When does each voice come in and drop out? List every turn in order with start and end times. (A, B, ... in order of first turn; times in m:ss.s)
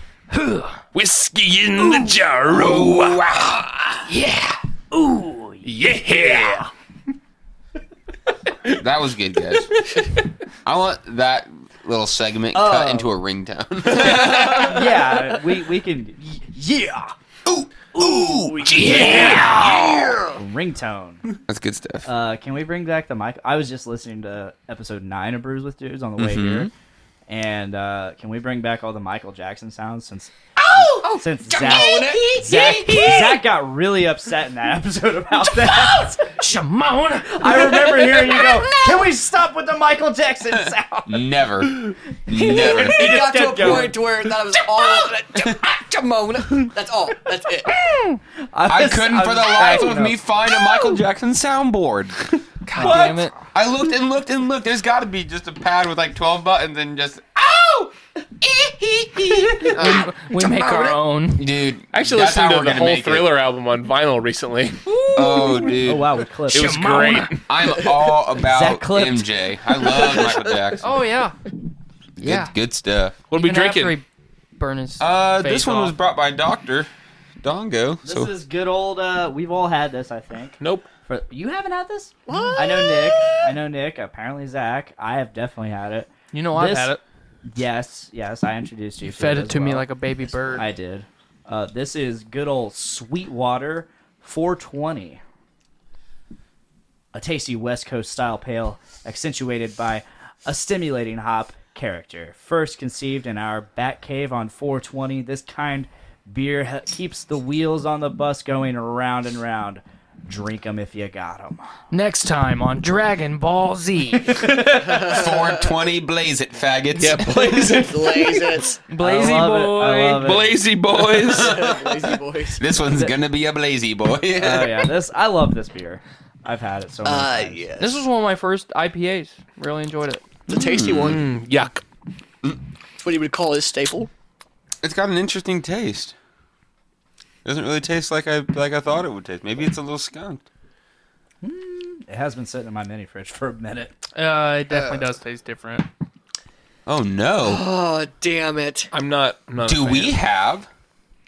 0:00.3-0:00.8 A
0:00.9-0:03.7 B
0:02.5-0:03.7 C
0:04.9-0:05.6 D
0:05.6-0:06.7 B
0:08.6-0:10.1 C
0:10.6-0:14.9 C
0:12.5-0:13.1 D
0:14.0-0:17.1 D
0:17.4-0:19.9 C
0:17.9-0:21.2 D
0:18.6-0:19.7 B
0:19.0-0:20.3 E
0:21.5-0:22.1 C
0:22.0-0:26.7 D
0:26.2-0:26.7 C
0:27.3-0:30.3 D
0:30.8-0:32.4 E
0:31.0-0:36.3 D
0:31.0-0:33.3 A
0:35.5-0:38.7 A
0:37.2-0:41.2 D
0:41.1-0:43.9 C
0:42.3-0:44.0 D
0:42.5-0:47.8 E
0:44.8-0:45.5 C
0:47.9-0:48.2 A
0:48.5-0:50.2 D
0:48.7-1:03.3 C
0:52.7-0:53.3 A
0:52.8-0:53.2 D
0:59.8-1:00.1 B
0:59.8-1:01.4 A
1:01.9-1:04.9 B
1:04.9-1:05.7 A
1:05.1-1:06.2 C
1:05.8-1:06.7 D
1:06.5-1:07.5 B
1:06.5-1:07.3 A
1:07.5-1:11.0 C
1:08.4-1:09.3 D
1:09.8-1:10.5 E
1:10.8-1:11.4 A
1:12.2-1:13.2 C
1:12.2-1:12.5 A
1:13.3-1:14.0 B
1:13.3-1:14.0 A
1:14.6-1:15.9 A
1:15.0-1:16.9 C
1:17.4-1:18.3 C
1:18.0-1:29.9 D
1:20.6-1:20.9 B
1:22.3-1:23.4 E
1:26.3-1:27.0 A
1:29.0-1:30.7 A
1:30.5-1:35.2 D
1:37.1-1:51.7 D
1:51.9-1:54.6 A
1:54.7-1:55.7 E
1:54.9-1:58.0 C
1:56.9-1:58.6 B
1:57.6-1:58.8 E
1:58.9-2:00.3 A
1:59.0-2:00.6 D
2:00.2-2:01.6 B
2:01.0-2:01.8 C
2:01.2-2:02.6 E
2:02.6-2:04.9 C
2:02.8-2:03.1 D
2:04.3-2:07.7 D
2:07.0-2:08.0 E
2:07.8-2:10.2 A
2:10.5-2:11.2 C
2:10.5-2:11.2 E
2:11.0-2:11.8 B
2:13.0-2:14.1 E
2:14.8-2:16.1 C
2:17.4-2:20.4 C
2:21.4-2:23.9 D
2:24.1-2:25.9 A
2:24.7-2:25.1 E
2:26.8-2:27.6 C
2:27.4-2:28.9 E
2:28.9-2:30.2 B
2:29.6-2:30.7 C